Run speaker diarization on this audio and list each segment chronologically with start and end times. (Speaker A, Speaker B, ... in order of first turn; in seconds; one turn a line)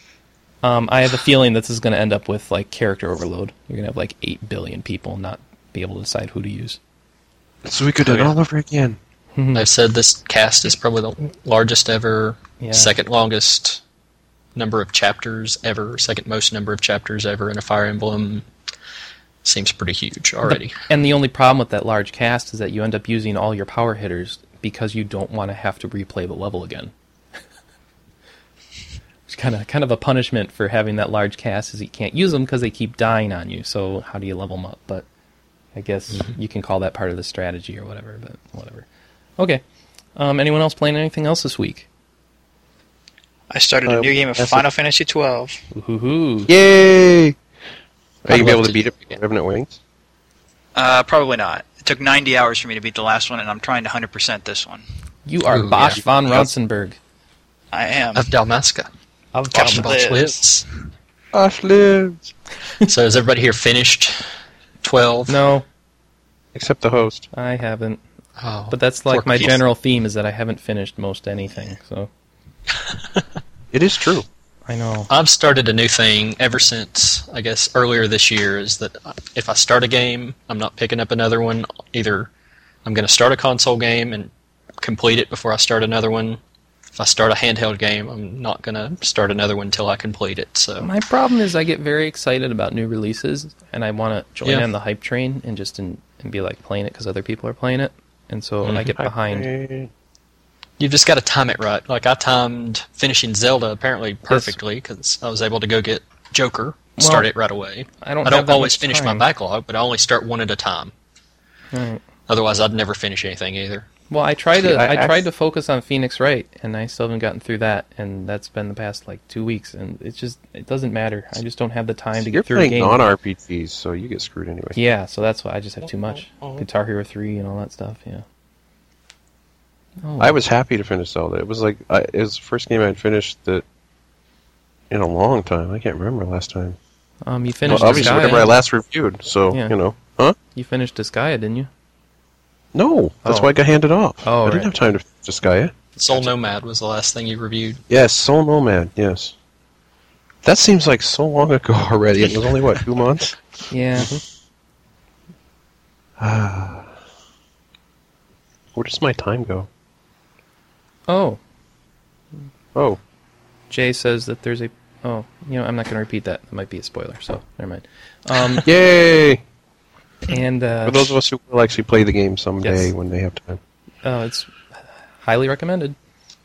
Speaker A: 0.6-6.8
Speaker B: 7.6-9.0
Speaker C: 8.0-8.3
Speaker A: 9.3-9.7
Speaker C: 9.5-13.8
Speaker A: 12.6-12.9
Speaker C: 14.6-18.5
Speaker C: 19.4-20.8
Speaker A: 20.4-26.9
Speaker A: 29.3-35.0
Speaker A: 35.7-38.9
Speaker A: 40.1-41.9
Speaker D: 43.5-45.6
Speaker B: 43.8-44.6
Speaker A: 45.7-46.5
Speaker B: 46.5-47.4
Speaker B: 48.2-49.8
Speaker C: 48.3-49.1
Speaker D: 50.7-54.8
Speaker A: 55.2-57.0
Speaker C: 55.5-56.0
Speaker D: 57.7-58.2
Speaker C: 58.1-58.9
Speaker A: 59.3-60.1
Speaker C: 59.5-60.6
Speaker D: 59.6-60.4
Speaker B: 61.3-62.3
Speaker C: 62.8-64.3
Speaker C: 64.8-65.4
Speaker A: 65.3-65.7
Speaker B: 66.5-67.3
Speaker A: 67.3-68.0
Speaker C: 68.4-69.6
Speaker A: 68.7-72.1
Speaker C: 72.8-73.2
Speaker B: 73.7-74.2
Speaker A: 74.7-75.1
Speaker C: 75.1-82.3
Speaker C: 82.8-86.4
Speaker C: 87.0-90.9
Speaker A: 90.8-99.5
Speaker C: 98.6-98.9
Speaker B: 99.0-99.9
Speaker C: 100.8-110.9
Speaker A: 104.3-104.6
Speaker A: 107.0-107.3
Speaker A: 108.0-109.2
Speaker A: 111.7-112.0
Speaker C: 112.3-113.8
Speaker A: 114.1-123.0
Speaker B: 114.6-115.2
Speaker B: 122.2-124.8
Speaker A: 124.7-128.2
Speaker A: 130.0-130.4
Speaker B: 130.2-133.6
Speaker B: 134.9-136.8
Speaker A: 137.2-138.5
Speaker B: 137.7-140.4
Speaker C: 137.7-138.4
Speaker A: 139.5-139.8
Speaker A: 140.5-141.7
Speaker B: 142.7-145.7
Speaker A: 143.2-143.5
Speaker A: 144.2-144.7
Speaker C: 145.9-147.8
Speaker B: 147.9-149.3
Speaker B: 150.4-154.2
Speaker A: 153.7-154.2
Speaker B: 156.2-156.9
Speaker B: 158.7-159.7
Speaker A: 161.1-161.4
Speaker A: 163.7-168.7
Speaker B: 168.6-169.4
Speaker A: 170.3-171.2
Speaker B: 170.8-173.6
Speaker A: 172.6-172.9
Speaker A: 174.0-175.9